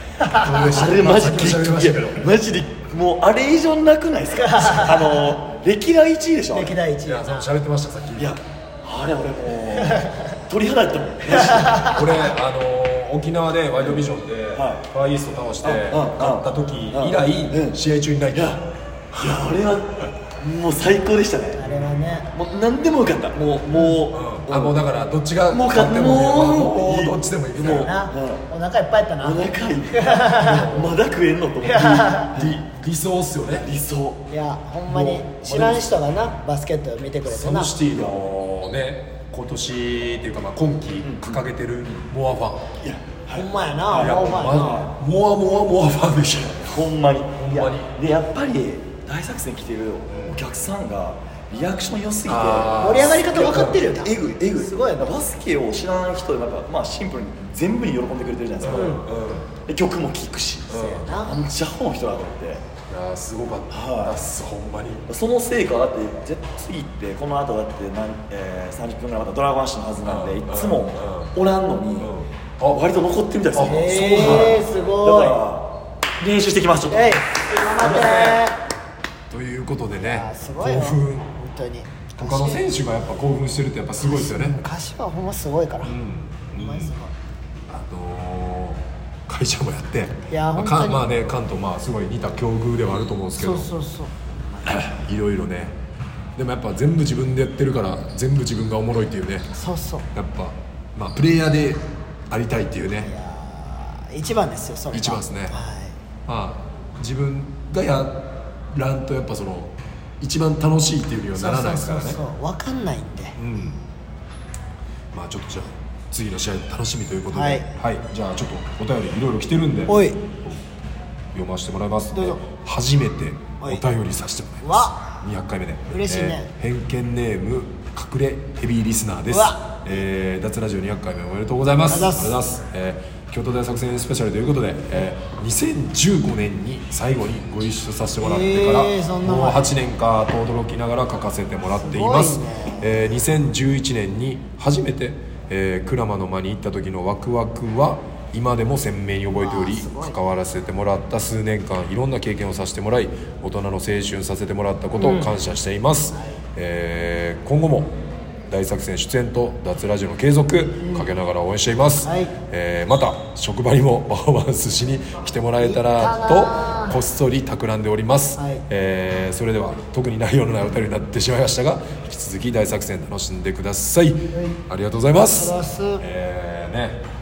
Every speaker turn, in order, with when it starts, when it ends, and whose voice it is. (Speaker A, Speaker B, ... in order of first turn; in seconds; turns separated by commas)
Speaker A: 0.2-0.6, Speaker B: 0.3-2.3, Speaker C: 0.6-6.8, Speaker A: 4.4-5.3, Speaker A: 6.5-7.5, Speaker B: 7.0-8.4, Speaker C: 8.2-11.9, Speaker A: 11.3-12.1, Speaker B: 11.9-18.6, Speaker C: 14.5-14.8, Speaker C: 15.6-17.8, Speaker C: 18.3-21.6, Speaker A: 21.6-22.3, Speaker C: 22.3-24.8, Speaker B: 24.1-27.9, Speaker C: 25.5-28.4, Speaker A: 27.7-30.7, Speaker C: 29.2-32.5, Speaker B: 30.4-31.0, Speaker A: 31.6-32.4, Speaker B: 32.3-33.7, Speaker C: 33.6-34.2, Speaker A: 34.3-37.7, Speaker B: 34.9-36.0, Speaker B: 37.2-42.7, Speaker C: 37.9-38.2, Speaker C: 41.0-41.4, Speaker C: 42.8-44.9, Speaker A: 43.3-44.9, Speaker B: 43.9-46.8, Speaker C: 46.4-59.0, Speaker B: 47.4-47.9, Speaker B: 50.1-50.4, Speaker B: 52.2-53.8, Speaker A: 52.8-55.2, Speaker B: 58.6-59.5, Speaker A: 58.7-59.0, Speaker C: 59.6-62.6, Speaker B: 60.7-61.1, Speaker A: 60.8-61.4, Speaker B: 62.9-65.1, Speaker C: 63.7-64.2, Speaker C: 65.1-72.1, Speaker B: 70.0-71.3, Speaker B: 72.0-72.8, Speaker C: 72.7-77.2, Speaker B: 73.5-74.6, Speaker A: 73.6-75.4, Speaker A: 76.9-78.6, Speaker C: 77.8-78.4, Speaker B: 77.8-78.4, Speaker B: 79.3-81.3, Speaker A: 80.0-82.6, Speaker B: 82.1-84.6, Speaker A: 84.0-86.0, Speaker B: 85.8-86.9, Speaker A: 86.5-87.1, Speaker B: 87.7-93.7, Speaker A: 90.3-91.0, Speaker A: 93.4-94.9, Speaker B: 94.7-95.8, Speaker B: 96.3-99.5, Speaker A: 99.5-100.1, Speaker B: 100.1-103.1, Speaker A: 103.0-106.0, Speaker B: 104.9-105.5, Speaker B: 106.3-112.2, Speaker A: 111.3-113.4, Speaker B: 113.3-113.8, Speaker B: 115.1-120.6, Speaker A: 117.3-117.7, Speaker A: 119.9-120.2, Speaker B: 121.3-157.9, Speaker A: 122.1-122.4, Speaker A: 124.6-125.1, Speaker A: 125.9-126.5, Speaker A: 129.3-129.8, Speaker A: 131.9-132.4, Speaker A: 138.2-139.7, Speaker A: 141.7-143.2, Speaker A: 149.3-150.2, Speaker A: 155.0-155.3, Speaker B: 158.5-177.0, Speaker A: 160.8-161.1, Speaker A: 162.0-162.3, Speaker A: 165.6-167.0, Speaker A: 168.4-168.6, Speaker A: 174.3-174.6, Speaker A: 175.3-176.0